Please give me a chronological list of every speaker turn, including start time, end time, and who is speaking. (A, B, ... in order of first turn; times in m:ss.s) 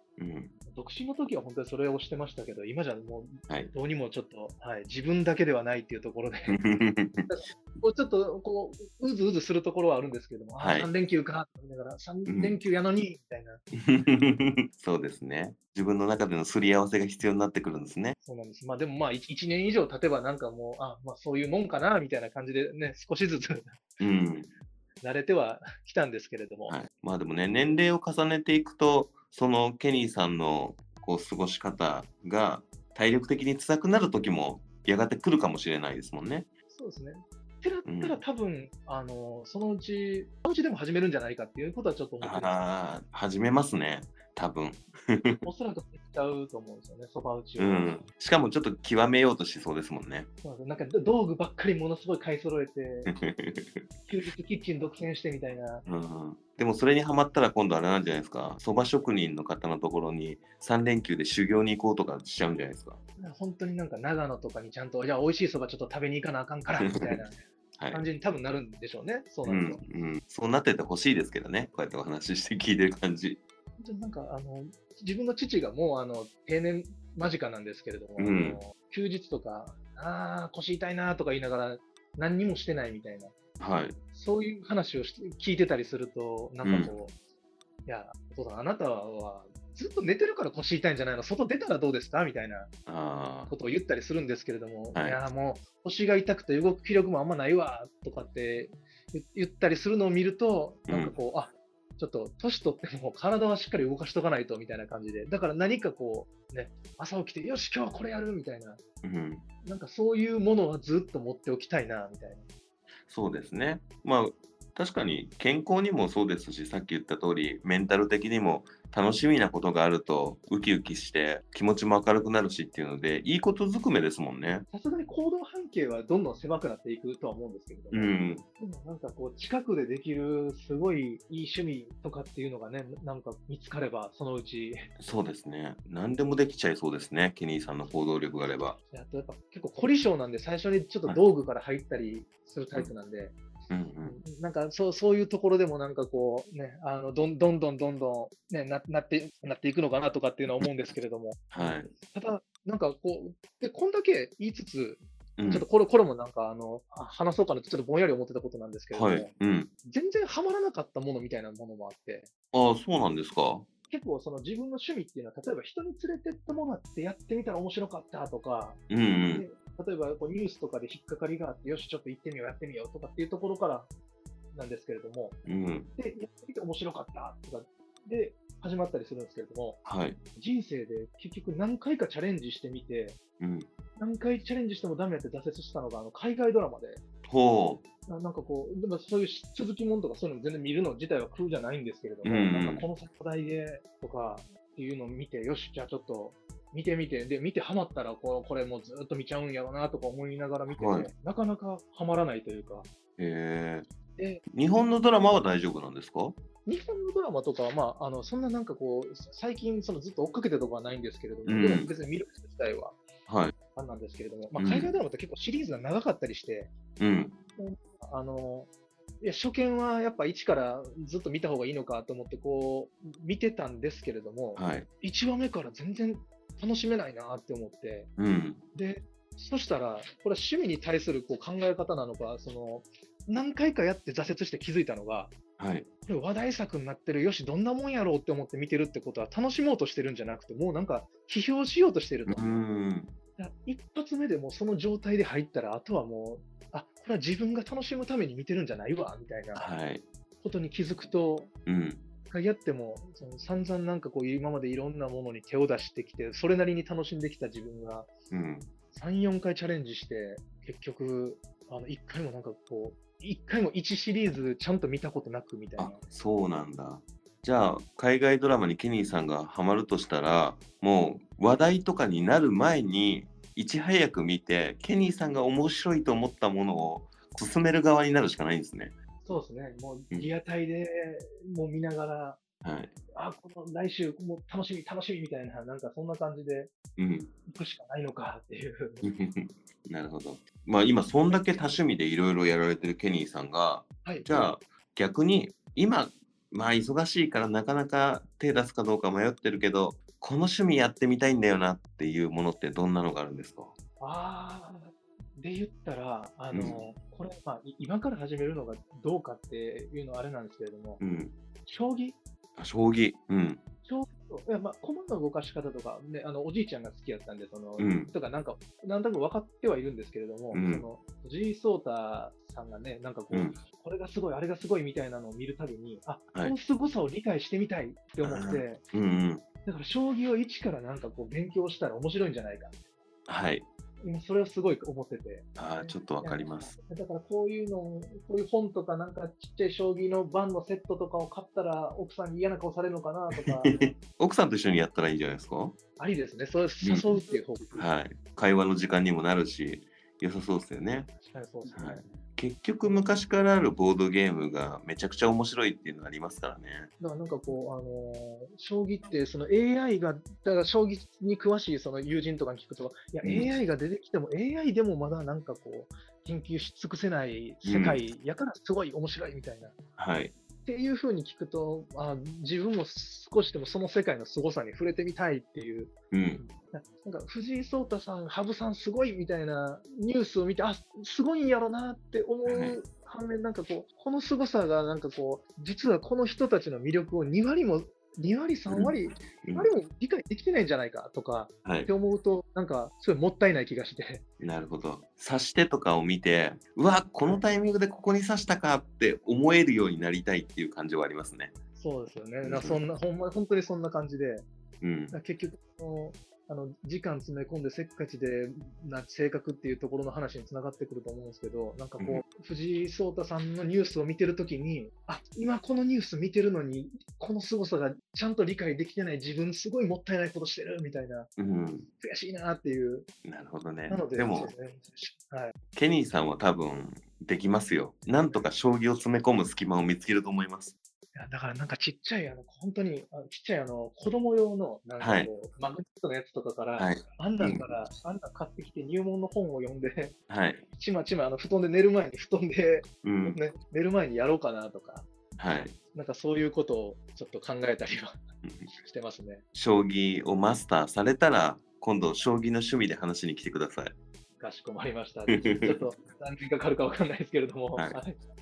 0:00.2-0:00.5 A
0:00.7-0:06.6 B
0:06.5-0:07.3 A
0:07.3-0:13.6 B
0:10.6-0:10.9 A
0:12.3-0:12.6 A
0:13.7-0:18.2 A
0:18.2-0:23.8 B
0:24.0-0:24.5 A
0:25.0-0:26.8 B
0:26.7-0:36.5 A
0:36.7-0:42.6 B
0:37.8-0:38.2 A
0:42.2-0:45.4 A
0:45.4-0:48.0 B
0:47.6-0:50.3 A
0:50.4-0:53.1 B
0:53.1-0:53.9 A
0:54.1-0:55.8 B
0:55.9-1:03.0 A
1:03.2-1:07.4 B
1:06.8-1:07.2 A
1:07.8-1:08.1 A
1:07.9-1:09.8 B
1:09.5-1:13.4 A
1:13.8-1:23.4 B
1:18.2-1:18.6 A
1:23.6-1:24.0 A
1:24.1-1:27.1 B
1:26.6-1:27.0 A
1:27.9-1:32.7 B
1:32.9-1:33.5 A
1:33.5-1:48.8 B
1:34.9-1:35.2 A
1:40.9-1:41.2 A
1:49.0-1:49.5 A
1:49.6-1:52.4 B
1:53.1-2:04.7 A
2:04.7-2:14.9 B
2:07.9-2:08.4 A
2:15.0-2:18.8 A
2:18.8-2:23.4 B
2:23.7-2:24.2 A
2:24.0-2:39.3 B
2:31.5-2:31.9 A
2:35.4-2:35.7 A
2:38.9-2:39.7 A
2:39.8-2:42.3 B
2:42.5-2:43.7 A
2:43.9-2:53.9 B
2:48.9-2:49.4 A
2:54.5-2:55.4 B
2:55.4-2:55.9 A
2:56.0-2:59.8 B
2:59.8-3:00.2 A
3:00.4-3:03.2 B
3:03.4-3:03.7 A
3:04.0-3:07.0 B
3:07.2-3:07.8 A
3:08.1-3:22.9 B
3:12.2-3:12.9 A
3:20.7-3:21.1 A
3:23.2-3:23.9 A
3:24.2-3:24.4 B
3:24.5-3:26.4 A
3:26.7-3:33.0 B
3:31.5-3:31.9 A
3:33.3-3:33.5 A
3:33.8-3:36.7 B
3:34.6-3:35.0 A
3:37.0-3:37.4 A
3:37.6-3:38.7 B
3:39.2-3:48.1 B
3:44.6-3:44.9 A
3:48.2-3:48.6 A
3:48.7-3:55.4 B
3:55.6-3:55.9 A
3:56.1-4:02.6 B
4:02.3-4:03.1 A
4:03.4-4:09.7 B
4:09.6-4:10.1 A
4:10.4-4:11.5 B
4:11.7-4:12.0 A
4:12.3-4:18.1 B
4:18.3-4:18.7 A
4:18.9-4:26.0 B
4:25.8-4:39.0 A
4:39.2-4:42.4 B
4:42.6-4:42.9 A
4:43.1-4:46.7 B
4:47.0-4:47.3 A
4:47.5-4:49.1 B
4:49.0-5:03.8 A
4:54.0-4:54.5 B
5:04.0-5:11.0 B
5:06.5-5:06.8 A
5:11.0-5:11.4 A
5:11.7-5:12.2 B
5:12.6-5:13.6 A
5:13.8-5:28.8 B
5:17.8-5:18.1 A
5:20.5-5:20.8 A
5:23.3-5:23.6 A
5:28.2-5:29.4 A
5:29.6-5:32.7 B
5:33.3-5:33.7 A
5:34.0-5:43.9 B
5:35.6-5:36.7 A
5:43.4-5:45.8 A
5:46.0-5:47.8 B
5:46.8-5:47.2 A
5:47.8-5:51.1 A
5:51.2-5:52.0 B
5:51.7-5:56.9 A
5:52.8-5:53.2 B
5:57.0-6:09.8 B
6:03.2-6:03.5 A
6:07.6-6:08.0 A
6:10.0-6:10.4 A
6:10.6-6:34.2 B
6:16.1-6:16.4 A
6:22.5-6:22.8 A
6:28.7-6:29.7 A
6:31.6-6:31.9 A
6:34.4-6:41.5 A
6:37.2-6:37.6 B
6:41.8-6:44.5 B
6:42.4-6:42.8 A
6:44.8-6:45.1 A
6:45.1-7:01.3 B
7:01.4-7:01.9 A
7:02.0-7:03.1 B
7:03.2-7:04.5 A
7:03.9-7:05.6 B
7:05.7-7:10.8 A
7:11.2-7:20.2 B
7:15.0-7:15.3 A
7:16.8-7:17.7 A
7:20.3-7:20.6 A
7:20.7-7:25.1 B
7:23.0-7:23.4 A
7:25.4-7:25.8 A
7:25.9-7:28.2 B
7:28.7-7:29.4 B
7:29.5-7:34.0 A
7:34.4-7:38.2 B
7:35.3-7:35.9 A